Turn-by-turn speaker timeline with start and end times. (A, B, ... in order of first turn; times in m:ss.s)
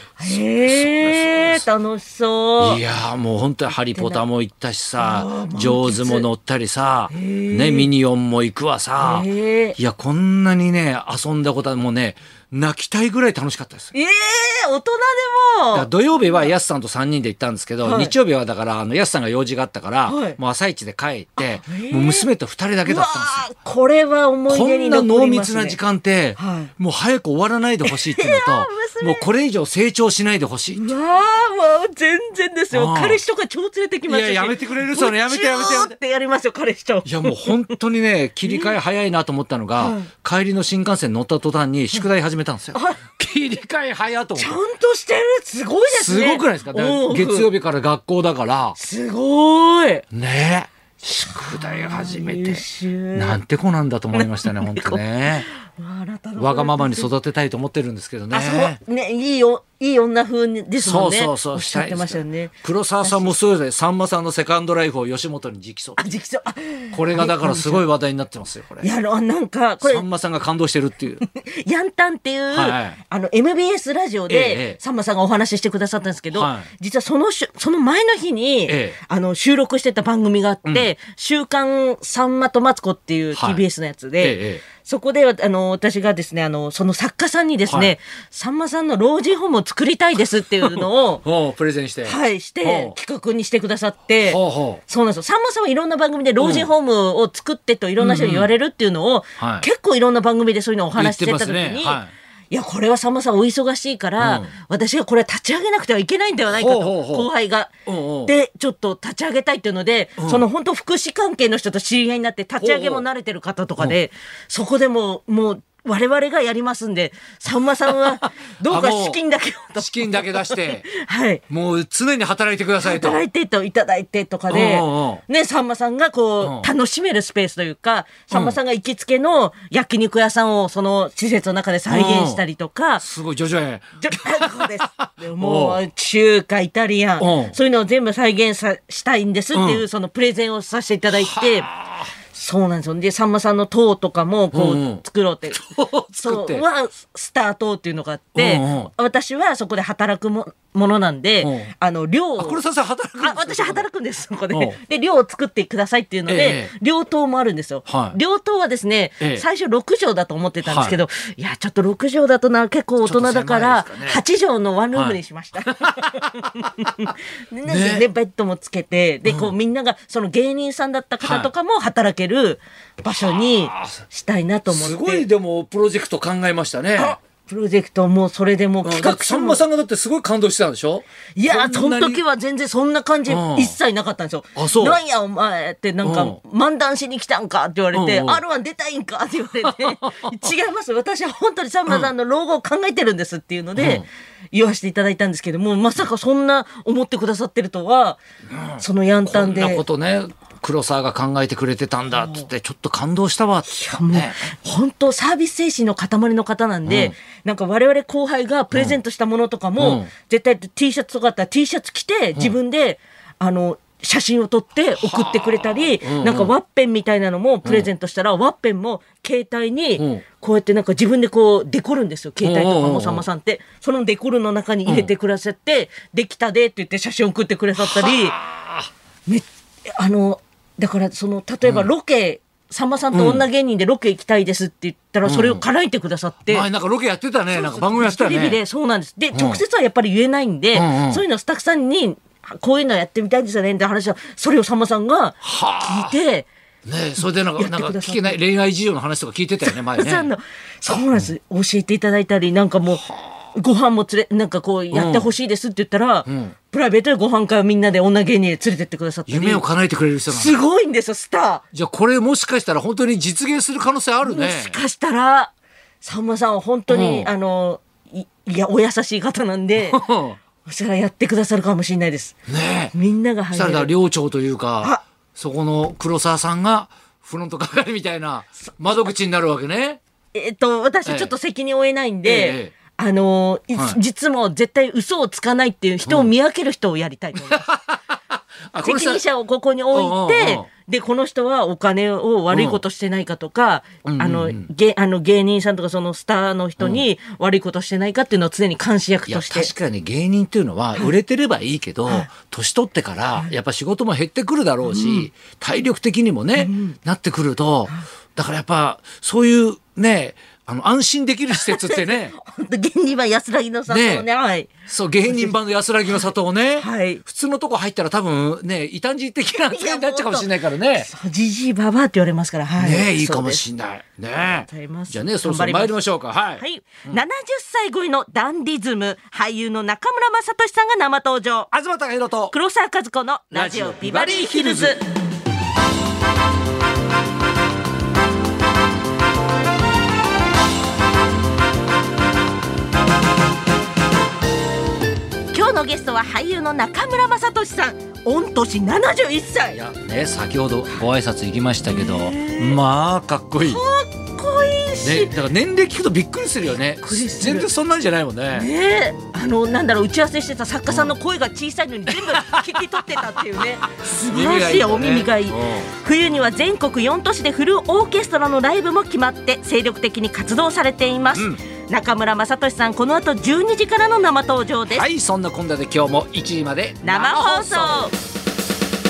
0:00.2-0:02.8 A
0:00.2-0:01.6 B
0:02.6-0:13.9 B
0:03.9-0:04.2 A
0:05.0-0:06.3 A
0:07.1-0:07.9 A
0:09.0-0:09.8 A
0:13.9-0:16.5 A
0:15.7-0:23.5 B
0:17.8-0:18.1 A
0:20.1-0:20.4 A
0:21.4-0:22.3 A
0:22.8-0:25.8 A
0:24.5-0:30.9 B
0:26.4-0:26.7 A
0:27.8-0:29.3 A
0:30.8-0:37.7 A
0:32.7-0:33.2 B
0:34.1-0:36.0 B
0:37.0-0:44.6 B
0:38.4-0:38.7 A
0:39.8-0:40.1 A
0:42.7-0:43.0 A
0:44.4-0:47.5 A
0:45.9-0:48.8 B
0:48.8-0:50.0 A
0:50.1-0:55.5 B
0:51.0-0:53.4 A
0:54.1-0:57.1 A
0:56.4-0:58.8 B
0:58.3-1:03.3 A
1:00.8-1:06.2 B
1:06.0-1:07.9 A
1:06.9-1:08.9 B
1:08.8-1:10.1 A
1:09.8-1:11.2 B
1:11.2-1:31.2 A
1:12.5-1:13.0 B
1:14.3-1:14.8 B
1:16.3-1:16.7 B
1:18.7-1:19.0 B
1:23.3-1:23.6 B
1:24.2-1:24.6 B
1:27.7-1:27.9 B
1:30.6-1:33.0 B
1:32.0-1:47.7 A
1:34.2-1:34.8 B
1:36.4-1:36.7 B
1:38.0-1:38.5 B
1:39.4-1:39.7 B
1:41.0-1:42.1 B
1:44.2-1:44.5 B
1:46.5-1:47.3 B
1:47.9-1:48.3 B
1:48.3-2:01.4 A
1:50.2-1:50.4 B
1:52.6-1:53.0 B
1:58.0-1:59.2 B
1:59.8-2:00.9 B
2:01.5-2:03.2 B
2:02.8-2:13.0 A
2:04.5-2:05.2 B
2:06.4-2:06.7 B
2:08.3-2:08.6 B
2:11.9-2:12.4 B
2:13.0-2:15.8 B
2:14.0-2:21.7 A
2:17.2-2:17.6 B
2:19.5-2:19.8 B
2:21.1-2:22.1 B
2:22.3-2:25.6 A
2:24.5-2:26.6 B
2:26.2-2:32.6 A
2:28.4-2:28.9 B
2:31.4-2:31.7 B
2:32.4-2:33.8 B
2:33.2-2:55.3 A
2:34.5-2:34.8 B
2:36.3-2:36.7 B
2:37.9-2:38.2 B
2:40.6-2:41.0 B
2:43.0-2:44.2 B
2:45.0-2:47.1 B
2:47.7-2:48.1 B
2:49.3-2:49.5 B
2:51.2-2:51.5 B
2:53.2-2:54.0 B
2:54.7-2:57.2 B
2:57.0-2:59.6 A
2:58.8-3:02.2 B
3:01.4-3:18.2 A
3:03.3-3:03.8 B
3:04.6-3:05.0 B
3:06.0-3:06.4 B
3:07.9-3:08.4 B
3:09.6-3:10.3 B
3:13.8-3:14.1 B
3:18.5-3:24.4 B
3:18.8-3:19.8 A
3:22.1-3:22.5 A
3:23.7-3:48.4 A
3:26.9-3:27.1 B
3:28.7-3:29.0 B
3:29.8-3:30.1 B
3:35.0-3:36.5 B
3:40.0-3:40.2 B
3:42.4-3:43.2 B
3:44.9-3:45.1 B
3:47.8-3:48.9 B
3:49.3-3:56.7 A
3:51.6-3:51.9 B
3:53.1-3:53.4 B
3:55.2-3:55.6 B
3:56.5-3:58.6 B
3:57.5-4:06.5 A
3:59.3-3:59.6 B
4:00.7-4:01.2 B
4:05.4-4:06.2 B
4:06.8-4:10.3 B
4:07.6-4:08.4 A
4:09.6-4:19.6 A
4:13.0-4:13.4 B
4:14.9-4:15.3 B
4:16.3-4:16.6 B
4:19.3-4:20.6 B
4:20.3-4:21.6 A
4:21.7-4:24.8 B
4:24.2-4:30.1 A
4:26.9-4:27.3 B
4:29.8-4:30.4 B
4:30.6-4:32.4 A
4:32.5-4:32.9 B
4:32.9-4:33.9 A
4:33.5-4:40.0 B
4:40.3-4:47.7 A
4:41.1-4:41.3 B
4:42.2-4:42.7 B
4:47.5-4:48.0 B
4:48.7-4:49.2 B
4:48.8-4:59.7 A
4:49.9-4:50.7 B
4:52.5-4:52.8 B
4:54.0-4:54.7 B
4:59.3-5:12.3 B
5:04.8-5:05.3 A
5:06.6-5:07.0 A
5:11.5-5:14.7 A
5:13.9-5:14.3 B
5:14.9-5:21.1 B
5:15.3-5:15.5 A
5:16.8-5:17.2 A
5:19.7-5:23.6 A
5:22.8-5:27.2 B
5:24.4-5:26.0 A
5:26.6-5:31.7 A
5:31.7-5:32.5 B
5:32.5-5:35.0 A
5:33.5-5:35.0 B
5:45.5-5:49.8 A
5:49.7-5:53.8 B
5:51.8-5:52.8 A
5:53.6-5:55.4 A
5:55.0-5:58.7 B
5:57.0-5:57.7 A
5:58.5-6:15.1 A
6:00.9-6:01.2 B
6:02.1-6:02.8 B
6:03.4-6:05.9 B
6:11.3-6:11.6 B
6:14.9-6:18.1 B
6:17.0-6:18.1 A